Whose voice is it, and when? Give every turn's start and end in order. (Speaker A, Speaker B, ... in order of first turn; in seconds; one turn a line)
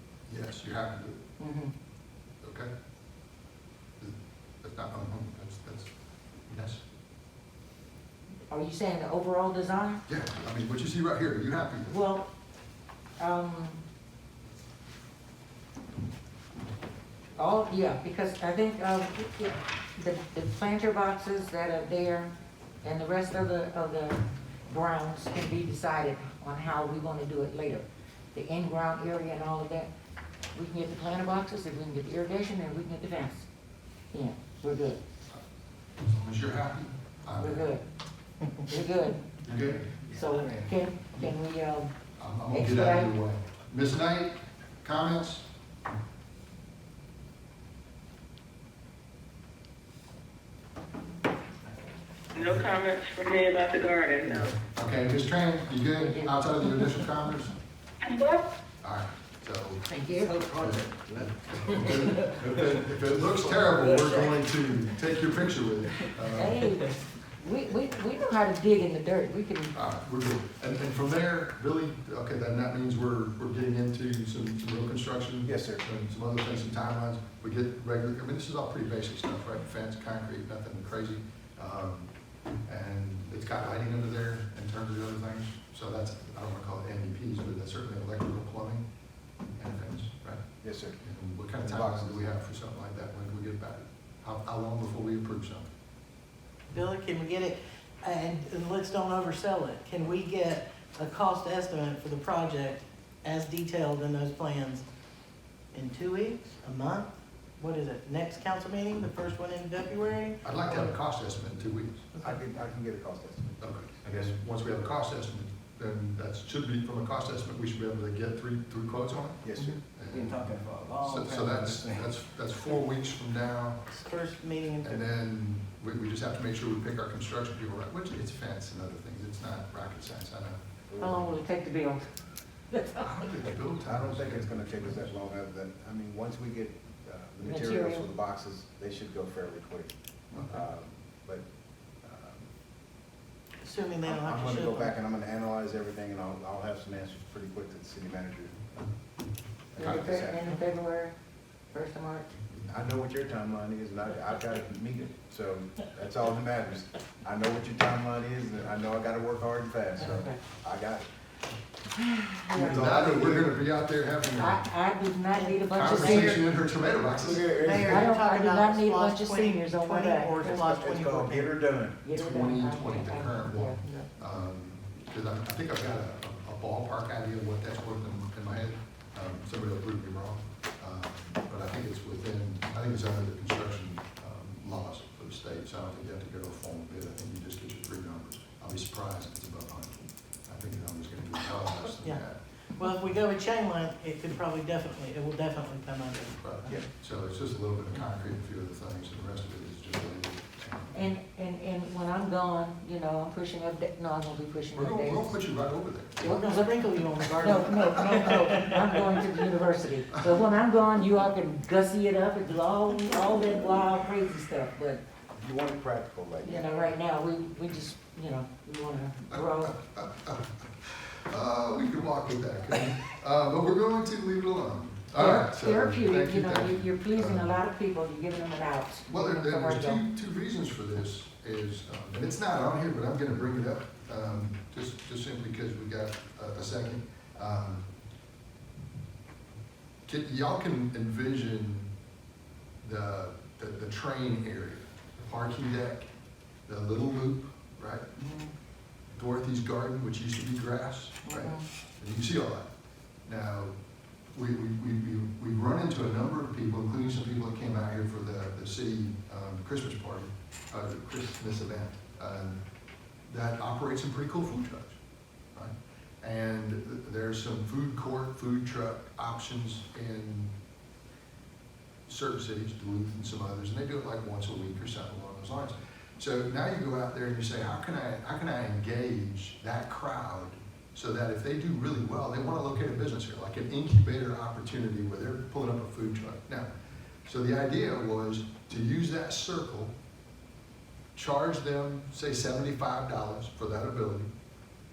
Speaker A: 0.3-1.2
Speaker B: 1.4-1.7
Speaker A: 2.4-2.7
Speaker A: 4.0-5.9
Speaker A: 6.5-6.8
Speaker B: 8.5-10.0
Speaker A: 10.1-11.9
Speaker B: 11.9-12.3
Speaker B: 13.2-13.8
Speaker B: 17.4-29.9
Speaker B: 30.5-33.5
Speaker B: 34.1-35.0
Speaker A: 36.0-37.7
Speaker B: 37.4-37.8
Speaker B: 38.6-39.4
Speaker A: 39.5-39.9
Speaker C: 39.6-40.6
Speaker B: 40.1-41.9
Speaker A: 42.2-45.5
Speaker B: 42.5-43.1
Speaker D: 52.4-54.5
Speaker A: 54.6-57.5
Speaker B: 56.0-56.7
Speaker D: 58.1-58.5
Speaker A: 58.8-59.8
Speaker B: 59.9-60.5
Speaker C: 60.3-64.1
Speaker A: 60.5-66.7
Speaker B: 66.3-69.8
Speaker A: 69.8-82.1
Speaker E: 75.5-75.8
Speaker A: 82.7-88.8
Speaker A: 89.6-90.4
Speaker E: 90.6-91.0
Speaker A: 91.0-95.7
Speaker E: 91.6-92.2
Speaker F: 96.7-104.8
Speaker F: 105.7-110.9
Speaker A: 110.4-112.1
Speaker E: 112.2-114.3
Speaker A: 113.6-120.5
Speaker E: 119.4-119.8
Speaker C: 120.1-122.1
Speaker A: 121.0-123.8
Speaker F: 123.9-125.0
Speaker A: 124.8-130.6
Speaker E: 130.9-131.4
Speaker B: 131.0-132.1
Speaker B: 132.7-133.1
Speaker A: 133.0-135.1
Speaker E: 133.7-139.9
Speaker B: 137.4-138.1
Speaker E: 140.4-141.4
Speaker E: 142.0-142.5
Speaker F: 143.6-144.9
Speaker E: 144.0-148.9
Speaker E: 149.7-150.6
Speaker B: 149.8-151.2
Speaker B: 151.7-152.3
Speaker E: 152.7-161.1
Speaker B: 162.2-163.2
Speaker A: 162.5-164.7
Speaker E: 162.6-163.6
Speaker B: 164.4-166.4
Speaker F: 165.3-166.4
Speaker A: 165.7-167.8
Speaker C: 167.2-168.1
Speaker F: 167.6-171.5
Speaker B: 167.8-170.7
Speaker E: 170.2-172.0
Speaker B: 172.0-173.8
Speaker A: 172.1-192.4
Speaker F: 192.8-196.7
Speaker A: 196.4-201.1
Speaker B: 200.9-205.4
Speaker A: 204.8-206.4
Speaker F: 206.2-209.4
Speaker B: 206.2-206.7
Speaker B: 207.4-215.0
Speaker E: 215.4-216.7
Speaker B: 216.4-219.8
Speaker A: 219.6-227.6
Speaker B: 225.2-230.0
Speaker A: 229.1-237.9
Speaker A: 240.1-241.9
Speaker A: 242.8-246.1
Speaker A: 246.7-248.1
Speaker B: 248.2-248.5
Speaker A: 249.1-252.7
Speaker B: 251.3-251.7
Speaker A: 253.3-253.7
Speaker A: 254.3-262.6
Speaker A: 263.3-265.0
Speaker A: 265.6-270.5
Speaker A: 272.1-286.7
Speaker A: 287.2-289.9
Speaker A: 291.1-294.3